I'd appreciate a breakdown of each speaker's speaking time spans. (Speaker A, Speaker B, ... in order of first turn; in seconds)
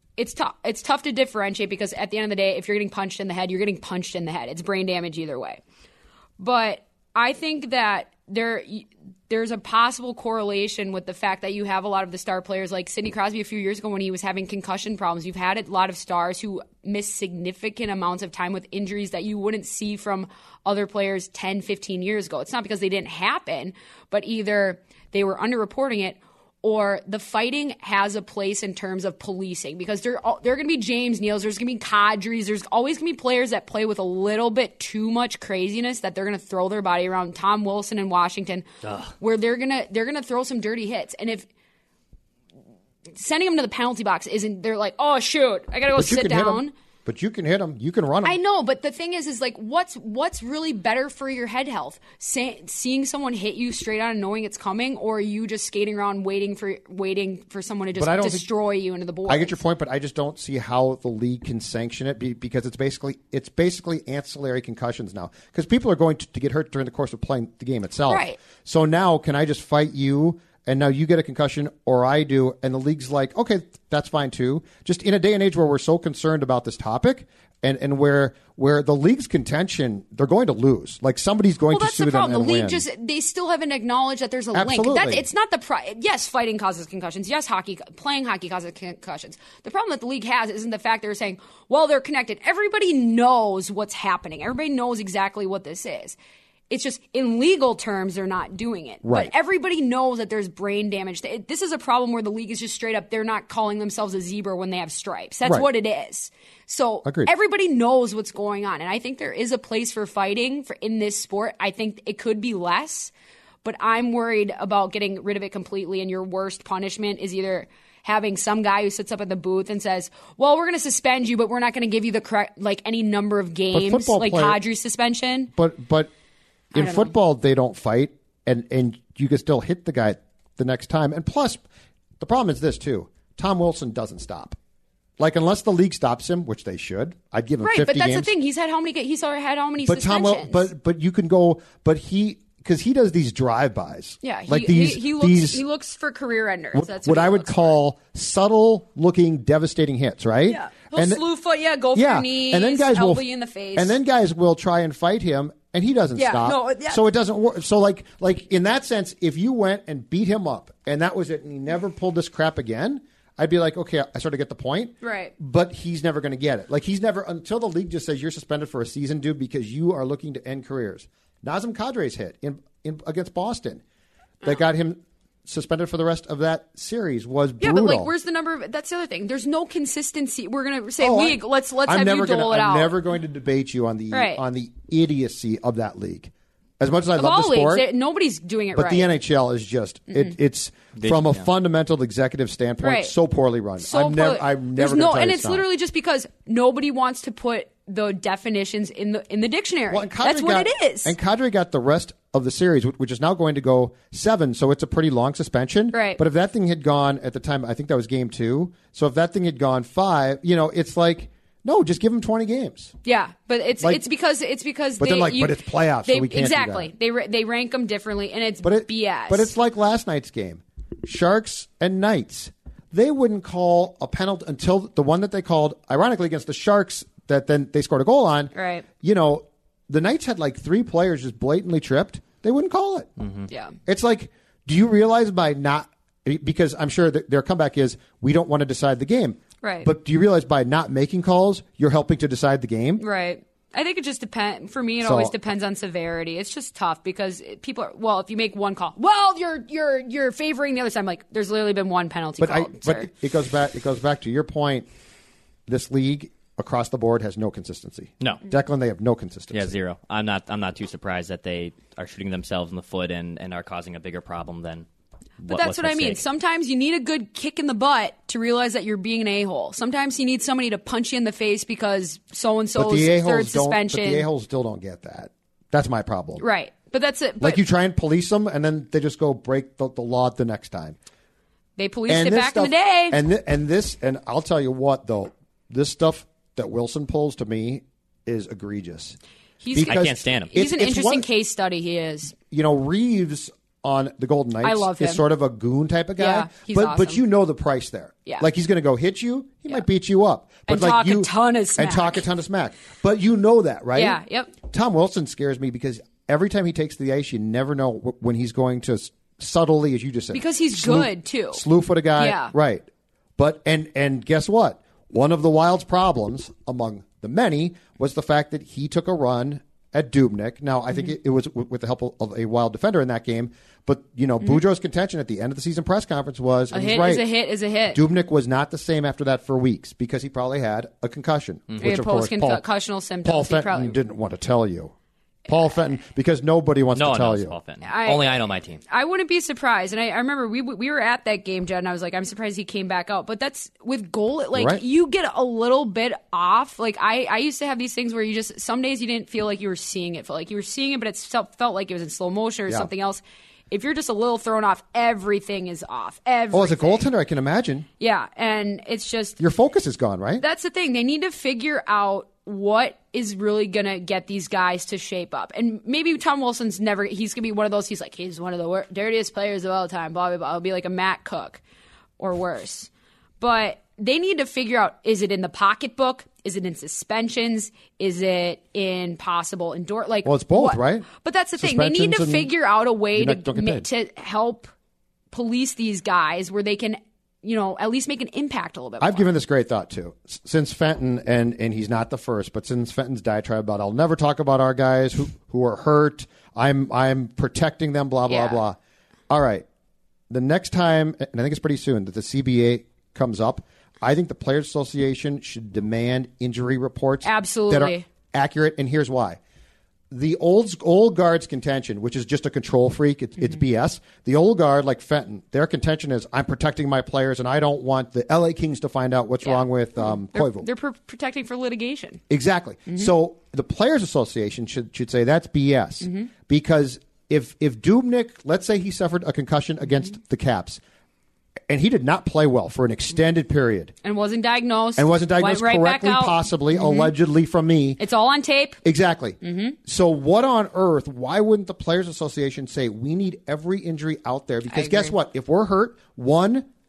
Speaker A: 0.2-5.6, 6.4-38.7, 39.2-41.5, 43.1-46.7, 48.2-59.6, 68.1-68.4, 81.7-96.2, 96.7-113.1, 113.6-125.5, 126.7-127.1, 137.6-140.7, 144.2-147.8, 150.5-153.9, 156.1-157.0, 165.0-165.3, 177.6-182.9, 184.1-184.4, 187.1-189.1, 190.1-190.3, 192.8-193.1, 193.8-201.1, 205.9-206.2, 213.0-219.5, 228.5-228.8, 233.5-233.7, 239.6-239.9, 243.0-253.1, 265.5-274.3, 276.4-277.6, 281.8-283.2, 289.6-292.3, 294.6-295.2, 296.2-297.2, 300.7-302.2, 303.9-304.5, 310.3-311.6, 312.2-312.5, 326.7-328.0, 331.8-334.0, 337.8-357.1, 358.0-359.4, 360.4-371.6, 372.2-384.7, 385.3-389.3, 398.3-398.6, 407.2-408.0, 413.4-413.6, 419.4-422.2, 426.0-426.3, 434.0-437.1, 438.0-438.8, 439.4-439.8, 444.7-445.1
Speaker B: 38.8-39.1, 191.0-191.4, 233.2-233.5, 259.5-264.9, 265.4-266.2, 289.9-290.5, 336.9-338.8
Speaker C: 45.9-48.4, 57.9-58.5, 59.3-82.8, 84.5-85.2, 99.0-99.3, 107.0-107.3, 123.7-124.6, 125.5-126.1, 126.7-131.6, 132.2-134.6, 135.2-138.3, 139.8-145.6, 146.7-151.2, 151.9-173.8, 174.4-178.1, 181.0-187.9, 188.7-195.7, 199.9-212.9, 215.0-216.9, 218.6-233.1, 233.8-243.0, 245.0-245.3, 252.4-254.9, 255.7-259.7, 272.8-276.4, 277.4-280.9, 282.1-289.2, 289.7-291.3, 292.5-327.3, 327.9-332.6, 333.2-334.9, 335.5-337.5, 344.5-344.8, 356.5-357.9, 359.4-360.4, 380.2-382.5, 383.1-383.9, 389.0-398.8, 399.3-399.6, 400.3-409.4, 410.1-420.7, 422.3-430.8, 431.7-433.9, 435.0-438.0, 438.8-446.7